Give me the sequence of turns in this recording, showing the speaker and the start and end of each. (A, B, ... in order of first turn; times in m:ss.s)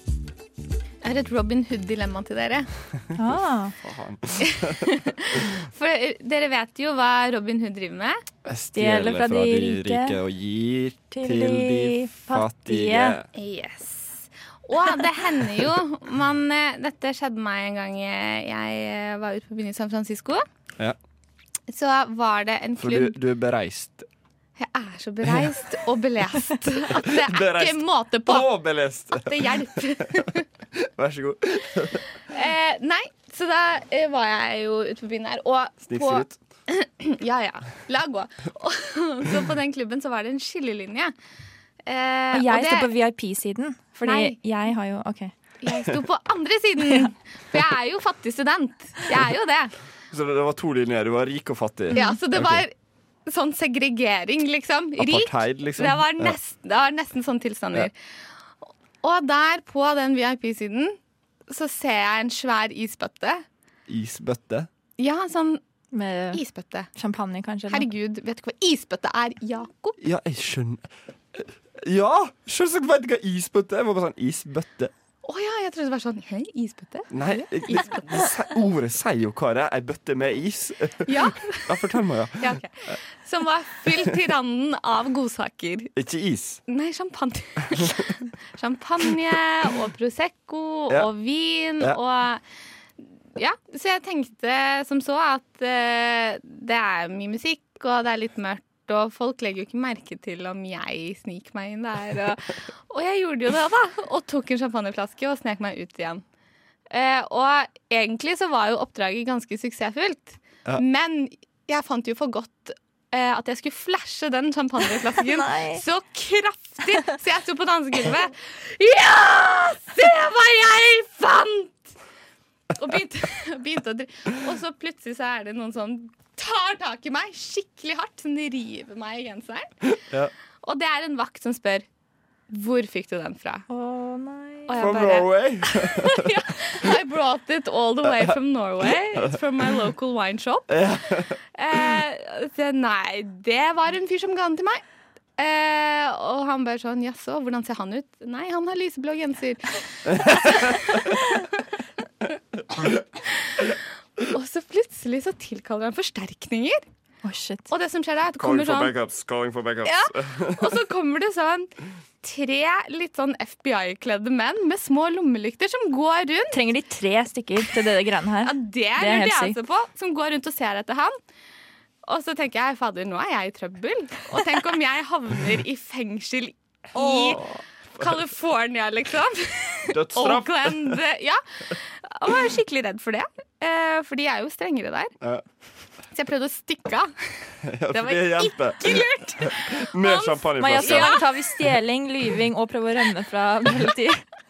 0:01.0-0:02.7 A
0:03.2-0:03.7 B
0:03.8-0:04.8 C
0:04.4-0:08.2 A
0:08.4-0:13.3 C
0:08.8-0:10.2 B
0:11.1-0:13.2 B
0:13.4-0:20.4 A
0:21.7-0:23.2 A
0:22.8-0:24.1 C
0:24.6-0:28.5 A
0:27.1-0:29.6 C
0:29.2-0:30.4 A
0:31.0-0:32.0 C
0:32.3-0:41.1 A
0:35.9-0:36.3 C
0:41.9-0:42.9 A
0:42.3-0:45.3 B
0:44.0-0:44.4 A
0:45.6-0:49.7 A
0:46.8-0:47.1 B
0:50.1-0:52.6 C
0:52.0-0:52.7 A
0:53.3-0:57.9 A
0:55.0-0:56.4 C
0:59.0-1:01.0 A
1:01.5-1:03.4 A
1:03.9-1:04.7 C
1:05.0-1:05.6 A
1:05.9-1:06.4 B
1:06.3-1:06.9 A
1:07.0-1:07.9 B
1:07.7-1:10.0 A
1:10.0-1:14.9 C
1:15.2-1:18.3 A
1:17.1-1:23.0 C
1:21.1-1:25.9 A
1:26.0-1:26.6 C
1:26.7-1:32.4 A
1:33.4-1:46.2 A
1:46.9-2:01.9 A
1:55.2-1:55.8 B
2:02.8-2:09.7 A
2:10.6-2:11.9 A
2:12.5-2:13.6 A
2:13.7-2:14.9 B
2:14.7-2:20.7 A
2:14.8-2:16.2 C
2:20.7-2:21.3 C
2:21.6-2:24.8 A
2:25.4-2:31.2 A
2:30.1-2:30.8 C
2:33.3-2:33.7 A
2:34.2-2:36.8 A
2:37.2-2:37.7 B
2:37.7-2:38.9 A
2:38.4-2:40.7 C
2:39.8-2:41.7 A
2:42.2-2:46.6 A
2:46.5-2:49.6 B
2:48.4-2:51.2 A
2:52.1-2:57.4 A
2:57.0-2:58.1 C
2:58.0-3:05.1 A
2:59.9-3:01.0 C
3:06.1-3:07.1 A
3:07.6-3:11.2 C
3:07.9-3:11.2 A
3:10.6-3:14.2 B